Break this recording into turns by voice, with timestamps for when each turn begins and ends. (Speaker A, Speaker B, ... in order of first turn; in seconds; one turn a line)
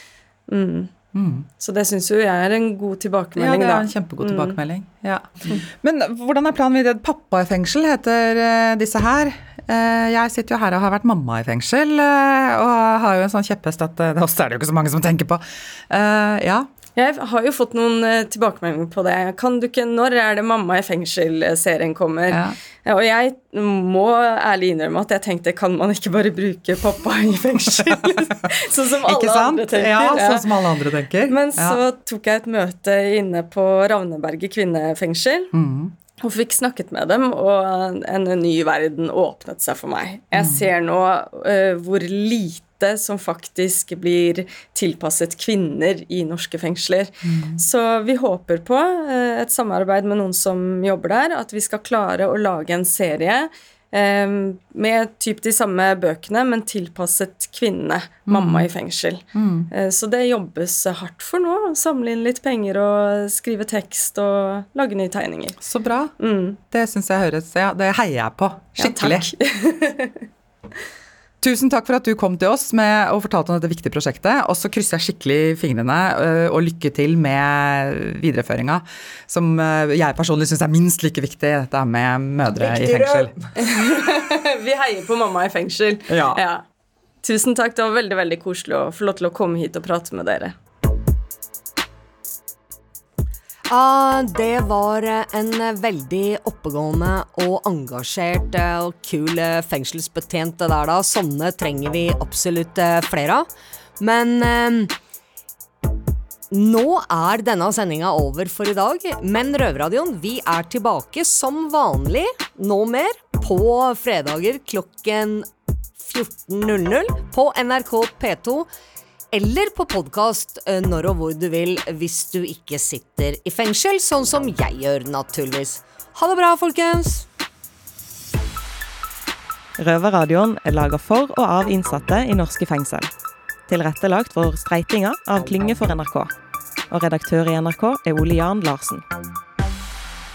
Speaker A: 0.5-0.9
Speaker B: 1.1-1.5
Speaker A: 1.6-4.6
Speaker B: 3.4-16.7
Speaker A: 17.0-30.5
Speaker B: 22.3-22.6
Speaker B: 29.0-31.8
Speaker A: 31.3-35.5
Speaker B: 35.5-36.0
Speaker A: 36.2-65.6
Speaker B: 40.4-40.7
Speaker B: 47.2-47.6
Speaker B: 58.3-58.7
Speaker B: 59.3-59.7
Speaker B: 65.6-66.1
Speaker A: 66.2-66.6
Speaker B: 66.7-69.3
Speaker A: 68.8-70.2
Speaker B: 71.4-83.4
Speaker A: 82.6-86.7
Speaker B: 86.1-86.4
Speaker A: 87.2-90.6
Speaker C: 93.7-103.5
Speaker C: 104.0-104.9
Speaker C: 106.5-115.5
Speaker C: 116.0-118.7
Speaker C: 119.3-127.3
Speaker D: 129.8-133.1
Speaker D: 133.7-136.3
Speaker D: 136.9-139.0